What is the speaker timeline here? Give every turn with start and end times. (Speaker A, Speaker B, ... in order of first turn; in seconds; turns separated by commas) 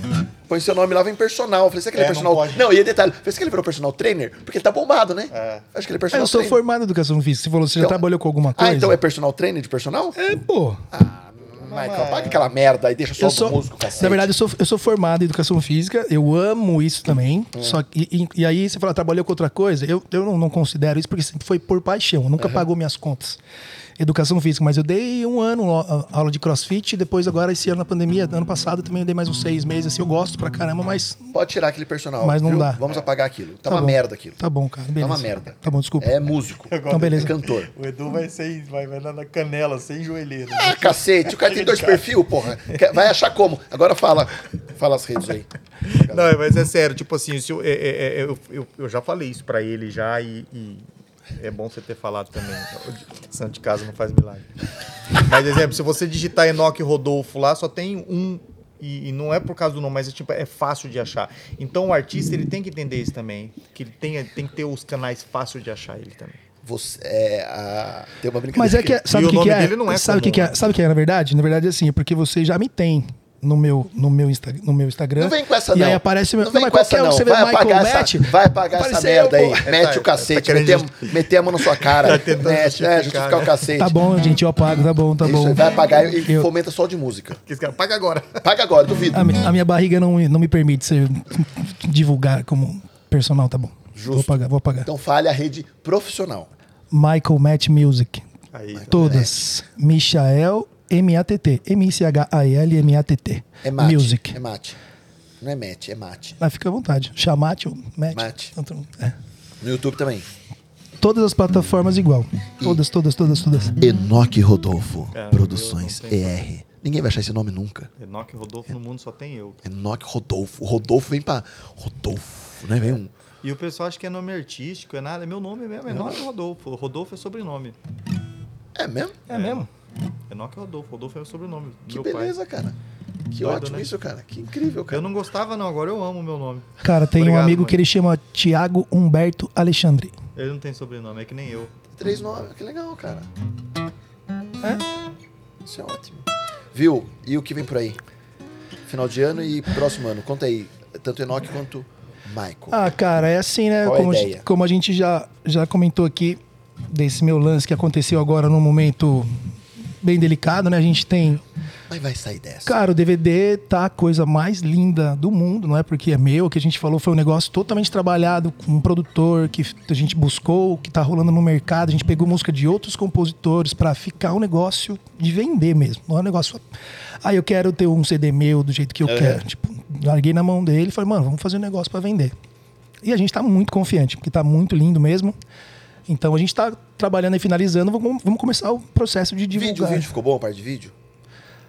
Speaker A: 0.5-6.6, Speaker B: 1.9-2.7, Speaker B: 5.3-5.7, Speaker C: 6.1-9.0, Speaker A: 7.8-8.0, Speaker A: 8.6-10.2, Speaker C: 10.2-10.8, Speaker A: 10.9-14.3, Speaker B: 11.7-12.5, Speaker C: 13.2-23.4, Speaker A: 17.5-17.8, Speaker A: 22.4-22.7, Speaker C: 24.0-31.3, Speaker A: 31.3-34.4, Speaker C: 32.2-32.8, Speaker C: 33.7-36.1, Speaker A: 35.0-37.7, Speaker B: 36.7-42.1, Speaker C: 36.9-37.3, Speaker A: 40.5-46.4, Speaker B: 45.9-54.5, Speaker B: 55.2-66.4, Speaker A: 66.6-69.0, Speaker C: 68.5-79.7, Speaker B: 69.1-70.6, Speaker A: 75.2-84.0, Speaker B: 79.6-81.1, Speaker B: 81.6-83.6, Speaker C: 83.8-86.5, Speaker A: 85.2-87.4, Speaker B: 87.5-88.4, Speaker A: 88.4-89.3, Speaker C: 89.1-94.9, Speaker A: 93.9-96.5, Speaker C: 96.9-98.3, Speaker B: 98.5-99.2, Speaker A: 98.7-99.4, Speaker C: 98.9-104.4, Speaker A: 103.6-104.8, Speaker A: 105.4-106.4, Speaker C: 106.4-109.2, Speaker A: 108.1-108.5, Speaker A: 109.6-110.3, Speaker C: 111.0-113.8, Speaker A: 113.8-117.9, Speaker B: 115.1-116.4, Speaker B: 118.0-119.6, Speaker A: 119.6-123.1, Speaker B: 123.4-127.8, Speaker A: 125.9-126.2, Speaker A: 128.8-129.2, Speaker C: 129.3-129.7, Speaker B: 129.3-129.7, Speaker B: 130.3-132.3, Speaker A: 131.9-132.8, Speaker A: 133.3-135.1, Speaker B: 133.3-133.9, Speaker B: 134.9-137.8, Speaker C: 136.8-140.1, Speaker B: 140.4-141.7, Speaker A: 141.9-143.3, Speaker A: 145.6-148.0, Speaker A: 148.9-153.0, Speaker C: 152.7-159.5, Speaker A: 153.8-154.5, Speaker C: 160.0-161.4, Speaker A: 161.9-162.8, Speaker C: 162.7-176.6, Speaker C: 177.2-182.3, Speaker A: 179.0-179.4, Speaker C: 183.0-185.4, Speaker C: 186.1-190.1, Speaker A: 189.5-190.9